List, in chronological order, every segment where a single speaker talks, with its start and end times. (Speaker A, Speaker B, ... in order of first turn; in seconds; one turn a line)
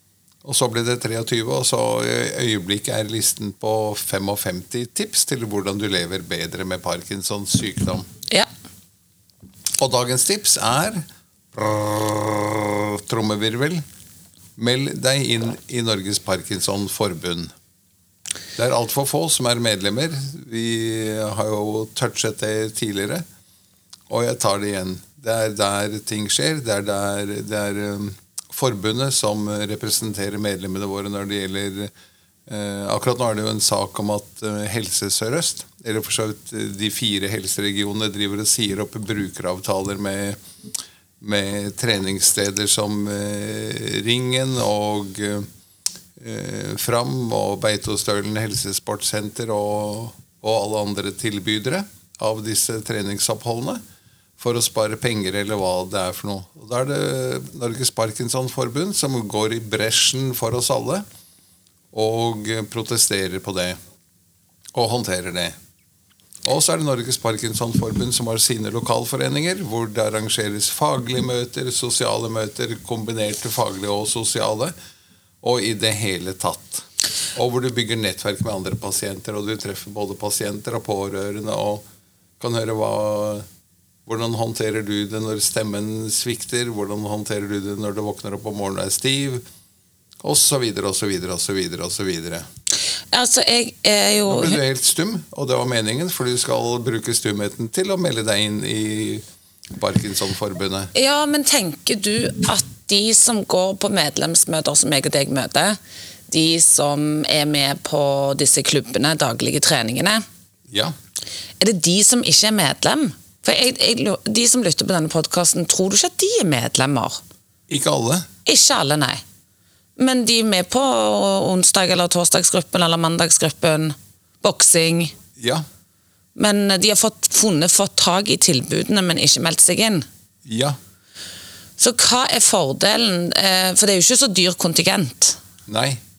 Speaker A: 0.4-8.1
Speaker A: 9.8-13.8
Speaker A: 14.6-17.5
Speaker A: 18.6-23.2
Speaker A: 24.1-31.9
Speaker A: 32.5-40.4
Speaker A: 41.2-45.5
Speaker A: 46.2-53.8
Speaker A: 54.4-61.0
Speaker A: 61.9-63.8
Speaker A: 64.7-65.5
Speaker A: 66.4-74.7
Speaker A: 75.4-81.8
Speaker A: 82.4-83.4
Speaker A: 84.0-89.4
Speaker A: 90.2-92.5
Speaker B: 93.1-94.6
Speaker A: 94.3-100.9
Speaker B: 100.9-105.8
Speaker B: 106.3-110.2
Speaker A: 110.7-110.9
Speaker B: 111.6-117.2
Speaker A: 117.7-118.3
Speaker B: 118.4-119.2
Speaker B: 120.0-125.1
Speaker A: 125.4-125.6
Speaker B: 126.4-130.1
Speaker A: 130.4-130.8
Speaker B: 131.8-135.4
Speaker A: 135.7-136.0